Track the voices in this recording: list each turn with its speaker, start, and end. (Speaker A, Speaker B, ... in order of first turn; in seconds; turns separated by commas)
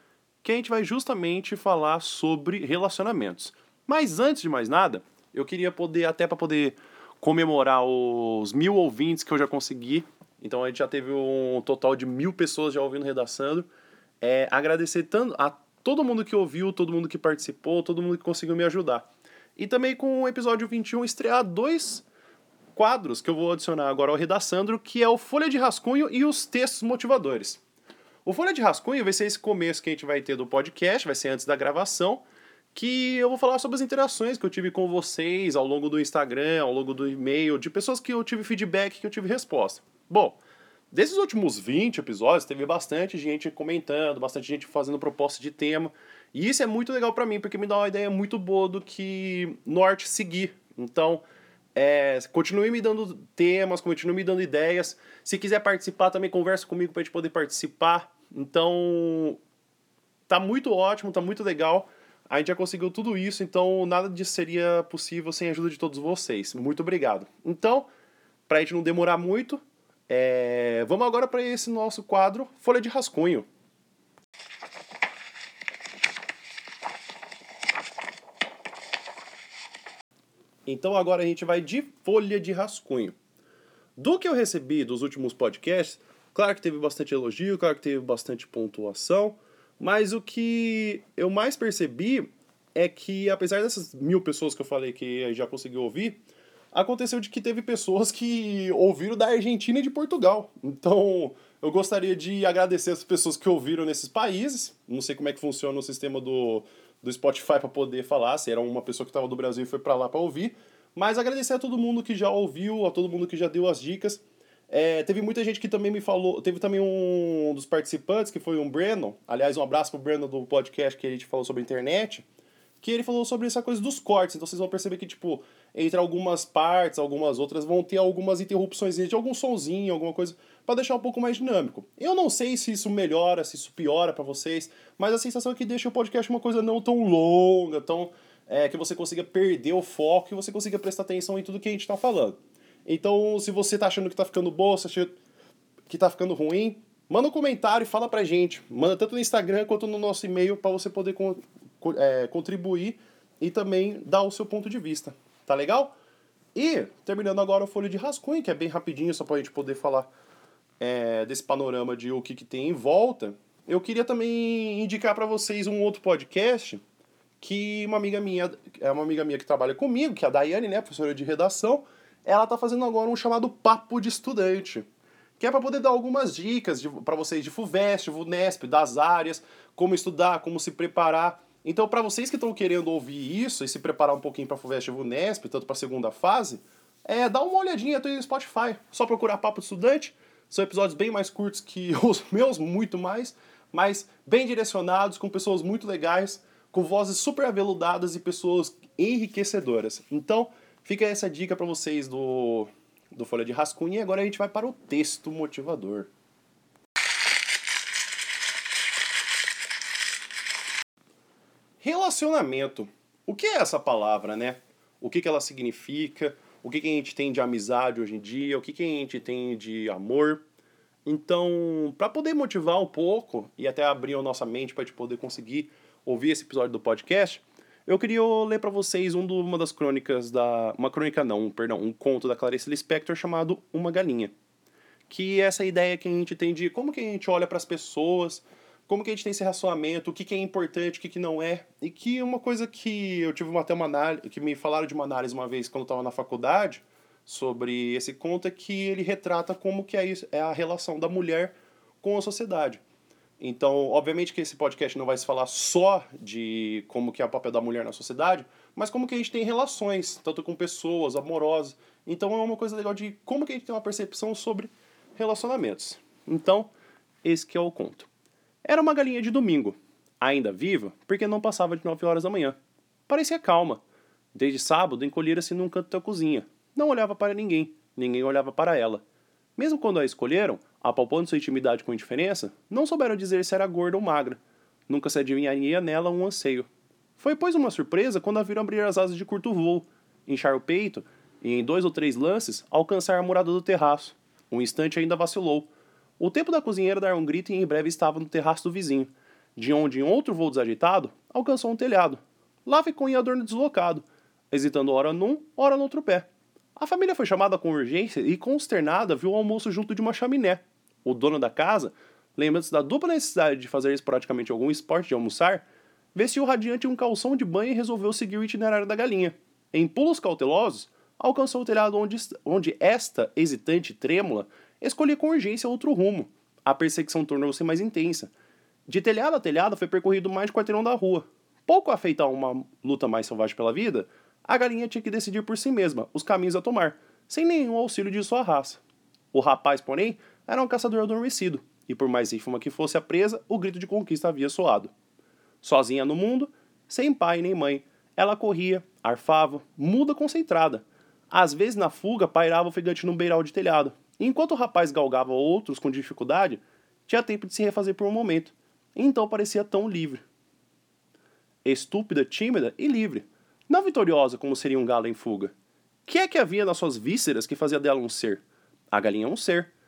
Speaker A: 0.4-13.7, Speaker A: 14.2-22.0, Speaker A: 22.7-27.6, Speaker A: 28.2-40.4, Speaker A: 40.9-51.2, Speaker A: 51.7-59.4, Speaker A: 60.3-67.9, Speaker A: 68.5-73.5, Speaker A: 80.7-83.1, Speaker A: 84.0-96.2, Speaker A: 96.7-122.2, Speaker A: 122.8-145.2, Speaker A: 145.9-155.9, Speaker A: 156.5-160.1, Speaker A: 160.8-166.8, Speaker A: 167.4-174.9, Speaker A: 175.4-206.1, Speaker A: 211.8-220.4, Speaker A: 221.1-234.3, Speaker A: 235.1-252.8, Speaker A: 253.4-266.7, Speaker A: 267.2-268.1, Speaker A: 268.6-272.6, Speaker A: 273.1-273.8, Speaker A: 274.3-279.0, Speaker A: 279.6-328.3, Speaker A: 328.9-338.8, Speaker A: 339.3-344.9, Speaker A: 345.6-360.2, Speaker A: 361.6-365.5, Speaker A: 366.1-369.7